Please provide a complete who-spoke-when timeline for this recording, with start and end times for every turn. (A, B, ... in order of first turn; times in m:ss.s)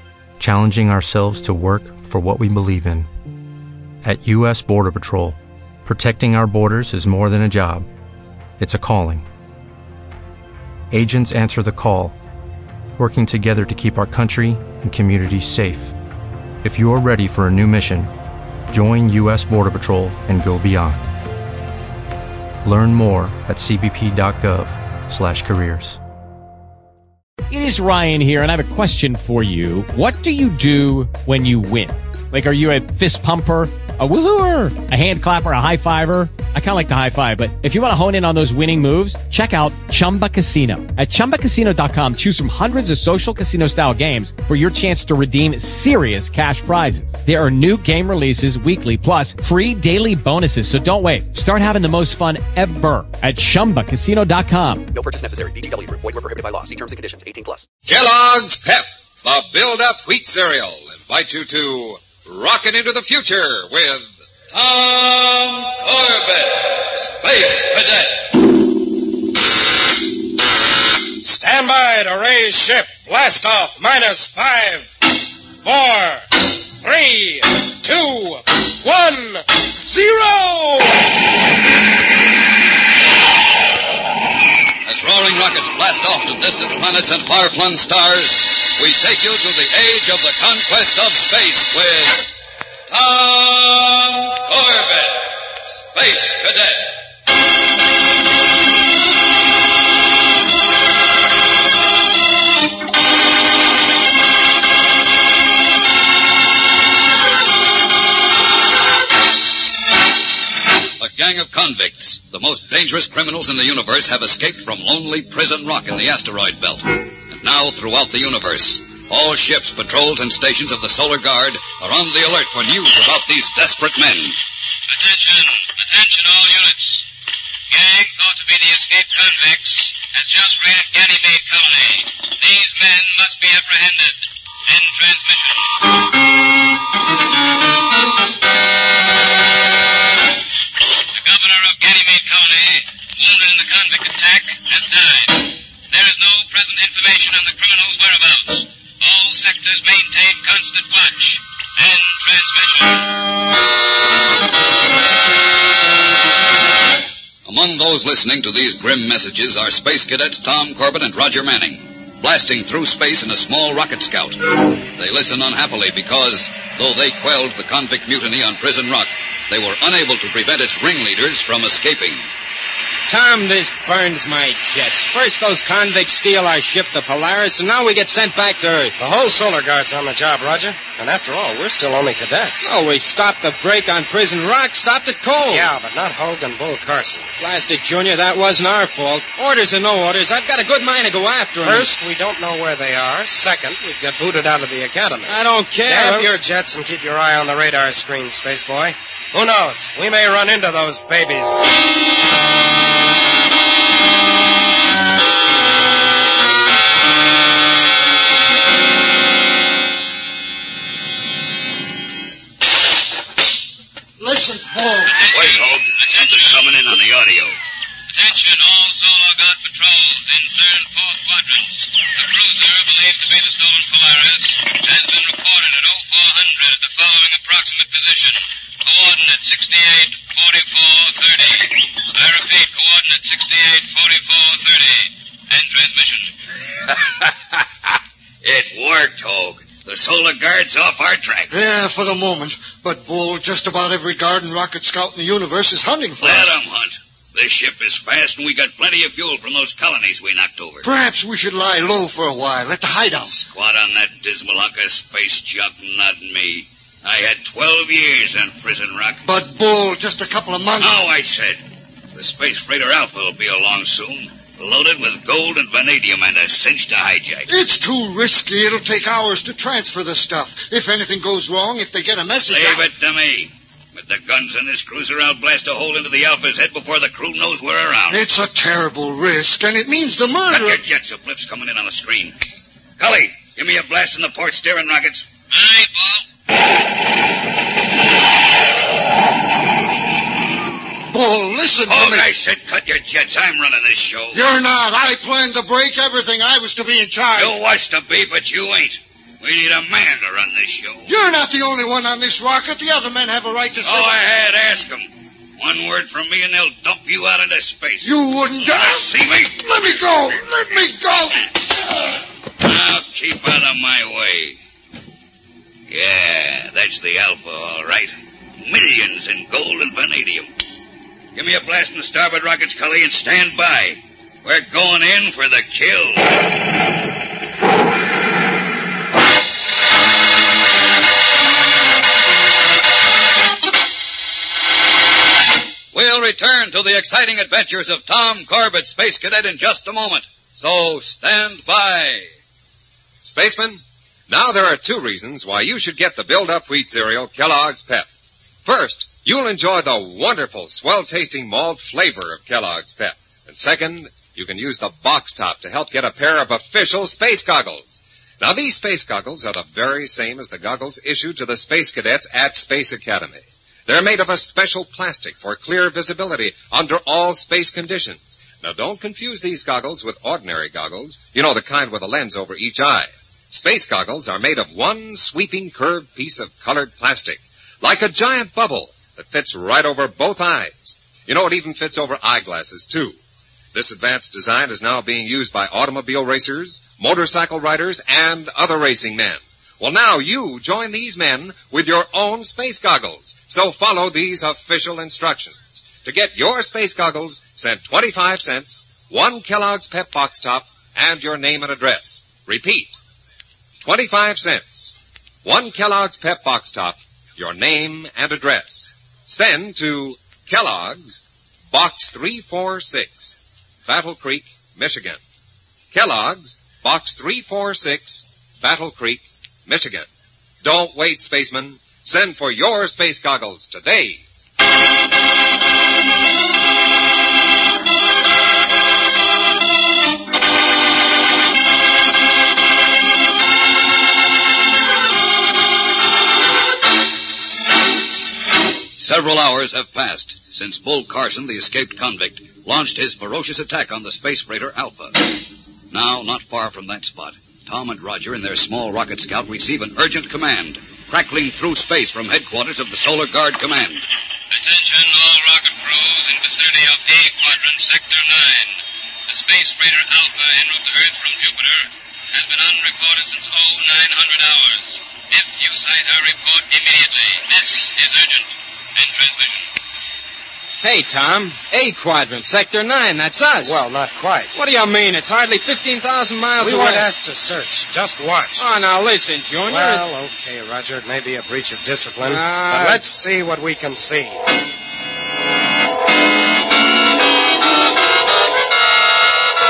0:00.4-0:03.1 A
0:04.0-0:07.9 A
0:08.6-0:09.2 A
0:10.9-0:12.2 A
0:13.0-0:15.9 A
0:16.6-0:18.1 A
0:18.7-0:21.1 A
0:22.6-0:26.0 A
0:27.5-0:55.0 B
0:55.0-0:57.6 C
0:57.9-1:04.1 D
1:04.5-1:08.2 E
1:11.2-1:14.9 F
1:15.6-1:16.2 F
1:16.8-1:21.0 F
1:24.9-1:32.2 E
1:32.9-1:36.9 E
1:51.0-2:04.4 E
2:04.9-2:07.0 G
2:07.7-2:14.1 G
2:14.7-2:15.6 G
2:21.2-2:28.5 G
2:29.0-2:31.2 G
2:31.9-2:32.8 G
2:37.5-2:52.3 E
2:53.1-2:58.9 H
2:59.0-3:02.7 F
3:02.6-3:05.7 H
3:05.5-3:07.3 F
3:07.4-3:11.9 H
3:11.6-3:21.7 F
3:15.3-3:16.3 H
3:34.2-3:35.1 I
3:35.1-3:36.6 G
3:35.2-3:37.6 E
3:38.1-3:56.3 G
3:56.9-4:01.5 E
4:01.5-4:06.6 I
4:06.2-4:10.9 E
4:10.8-4:13.4 I
4:13.3-4:19.2 E
4:19.2-4:21.1 I
4:20.8-4:21.6 E
4:22.2-4:27.5 E
4:27.5-4:32.9 I
4:32.5-4:38.2 E
4:38.1-4:40.8 I
4:40.5-4:42.4 E
4:43.0-4:45.3 E
4:45.6-4:45.9 G
4:51.1-4:52.3 I
4:51.9-4:54.4 E
4:54.3-4:57.6 I
4:57.4-5:01.1 E
5:01.1-5:04.2 I
5:03.8-5:10.1 E
5:08.0-5:11.4 I
5:12.6-5:14.6 E
5:15.9-5:20.5 E
5:21.4-5:26.3 E
5:35.9-5:42.2 E
5:43.2-5:48.1 D
5:48.6-6:23.2 D
6:23.7-6:42.9 D
6:43.8-6:55.2 D
6:55.9-7:00.1 D
7:00.6-7:04.2 D
7:19.0-7:25.2 E
7:25.9-7:34.0 E
7:34.5-7:38.8 G
7:39.3-7:48.5 G
7:49.0-7:49.7 G
7:50.8-7:53.8 H
7:53.6-7:54.6 F
7:54.6-7:57.1 H
7:56.6-7:58.7 F
7:58.6-8:00.1 H
7:59.7-8:04.4 F
8:02.2-8:03.1 H